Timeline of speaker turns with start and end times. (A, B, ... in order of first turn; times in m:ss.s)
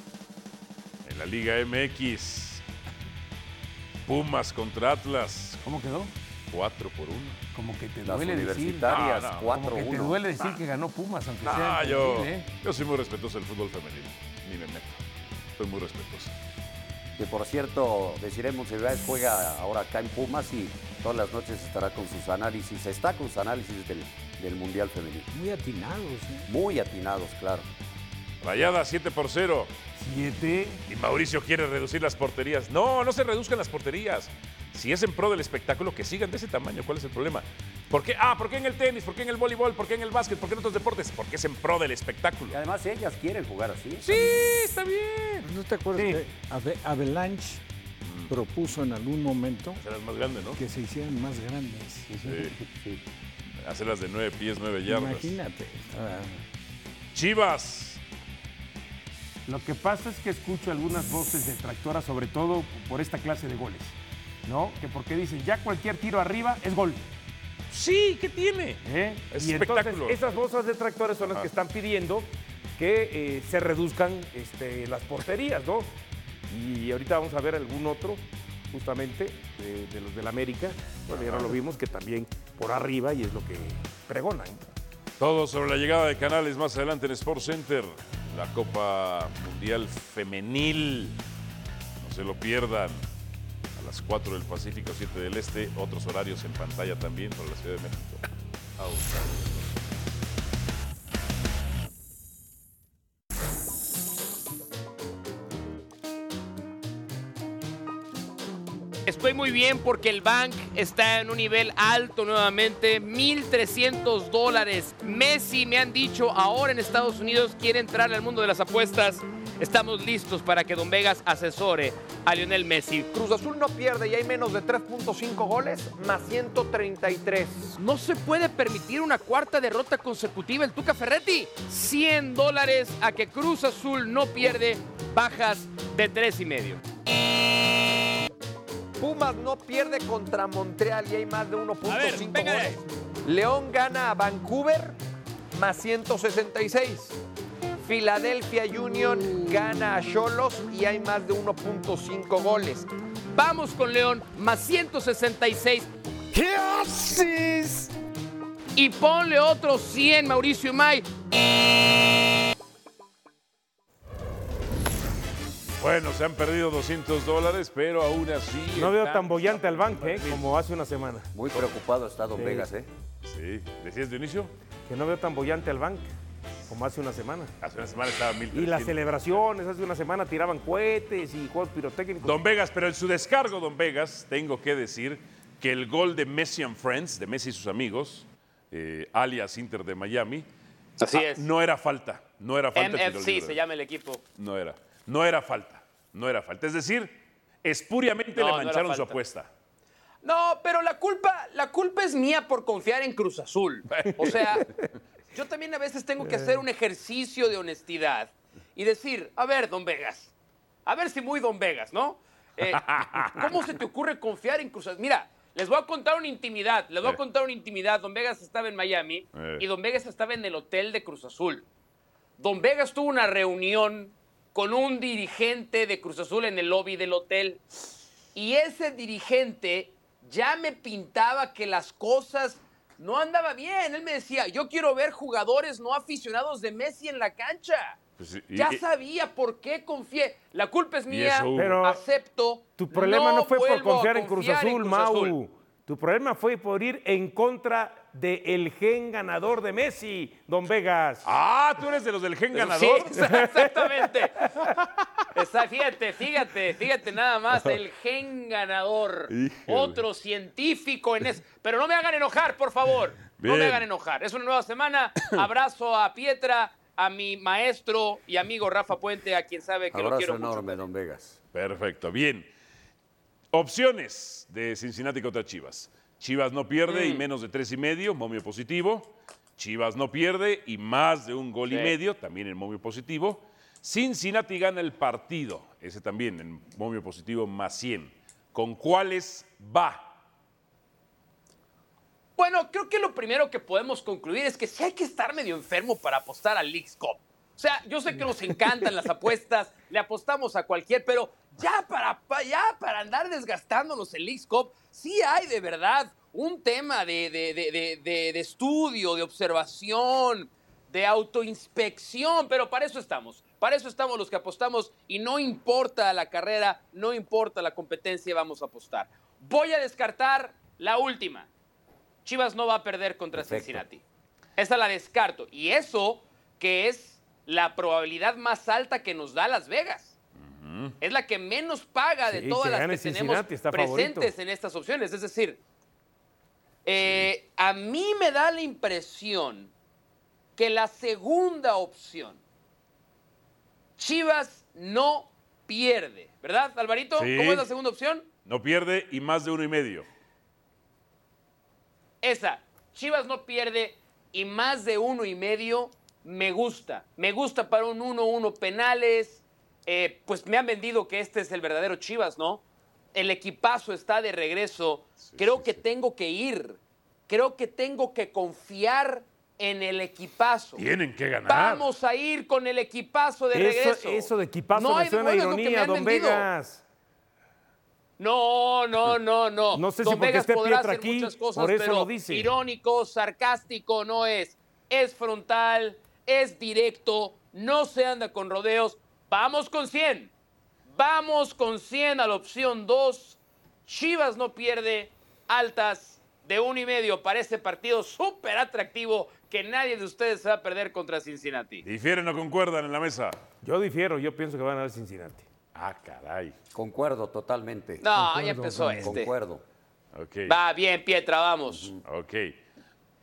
0:01.0-0:02.6 A
0:04.0-0:05.6 A
0:05.6-0:06.1 B
0:06.5-0:07.4 A
0:07.5-0:12.5 B
0:08.0-0:10.2 C
0:08.8-0:09.5 A
0:11.4-0:15.0 A
0:15.6-0:16.3 A
0:17.2-0:25.3 C
0:25.3-0:26.5 D
0:26.5-0:27.7 C
0:28.4-0:29.7 A
0:30.0-0:30.8 B
0:30.9-0:42.6 A
0:42.5-0:44.3 C
0:44.0-0:45.4 A
0:45.4-0:47.6 D
0:45.9-0:46.2 B
0:48.0-0:48.3 A
0:48.3-0:49.8 D
0:49.8-0:50.6 A
0:50.6-0:52.1 D
0:52.1-0:53.0 B
0:52.2-0:52.6 A
0:53.6-0:55.4 A
0:54.8-0:56.4 D
0:57.1-0:58.0 A
0:59.4-1:03.9 B
1:04.4-1:07.0 B
1:07.7-1:10.2 A
1:08.8-1:15.9 B
1:16.5-1:24.7 B
1:21.1-1:21.5 A
1:25.2-1:31.2 A
1:32.0-1:33.0 A
1:33.8-1:38.2 A
1:38.8-1:39.5 A
1:49.0-2:03.1 E
2:03.1-2:07.7 F
2:07.7-2:16.8 E
2:19.0-2:25.0 F
2:21.8-2:22.8 E
2:25.5-2:27.2 F
2:27.8-2:32.9 F
2:33.3-2:35.9 E
2:36.3-2:37.4 F
2:38.7-2:41.1 E
2:45.8-2:50.5 A
2:48.8-2:51.3 B
2:51.3-2:52.9 C
2:52.4-2:52.7 B
2:53.2-2:54.5 A
2:54.9-2:56.1 B
2:56.7-2:57.5 B
2:57.6-2:59.4 A
2:58.5-3:02.4 B
3:02.2-3:10.5 A
3:11.0-3:11.5 E
3:11.1-3:13.6 A
3:12.7-3:14.2 E
3:14.4-3:19.5 A
3:18.3-3:19.2 E
3:20.2-3:24.6 E
3:23.9-3:24.6 A
3:25.3-3:30.3 E
3:26.2-3:26.6 B
3:30.8-3:41.6 E
3:32.6-3:33.5 A
3:39.3-3:39.6 A
3:42.4-3:47.6 E
3:48.3-3:58.0 E
3:58.2-3:58.8 A
3:58.5-4:05.4 E
4:01.1-4:01.8 A
4:01.6-4:02.0 B
4:02.8-4:11.3 B
4:11.2-4:13.4 A
4:12.5-4:14.3 E
4:13.1-4:14.0 B
4:15.3-4:30.8 E
4:17.5-4:17.8 A
4:19.3-4:20.0 A
4:23.4-4:23.9 A
4:29.9-4:31.4 C
4:31.5-4:32.5 A
4:33.5-4:50.1 A
4:36.9-4:37.2 E
4:41.6-4:41.9 E
4:52.4-5:21.5 E
5:22.2-5:24.0 E
5:23.3-5:23.8 C
5:24.6-5:30.1 E
5:30.4-5:31.0 A
5:31.0-5:35.6 E
5:32.2-5:34.3 B
5:36.8-5:39.7 E
5:37.0-5:37.3 A
5:40.6-5:42.4 E
5:44.0-5:48.3 E
5:47.1-5:47.7 A
5:48.4-5:50.0 A
5:52.2-6:10.8 E
6:05.2-6:05.8 A
6:10.8-6:11.9 A
6:11.5-6:16.5 E
6:13.5-6:16.8 B
6:18.2-6:30.3 E
6:19.7-6:22.5 B
6:30.9-6:41.8 E
6:41.8-6:43.4 A
6:43.6-6:45.4 B
6:45.7-6:46.6 A
6:46.7-6:48.0 C
6:48.0-6:49.3 E
6:48.1-6:49.1 D
6:49.0-6:49.6 C
6:50.1-6:50.6 A
6:50.5-6:51.9 E
6:51.7-6:52.0 C
6:52.0-6:52.6 A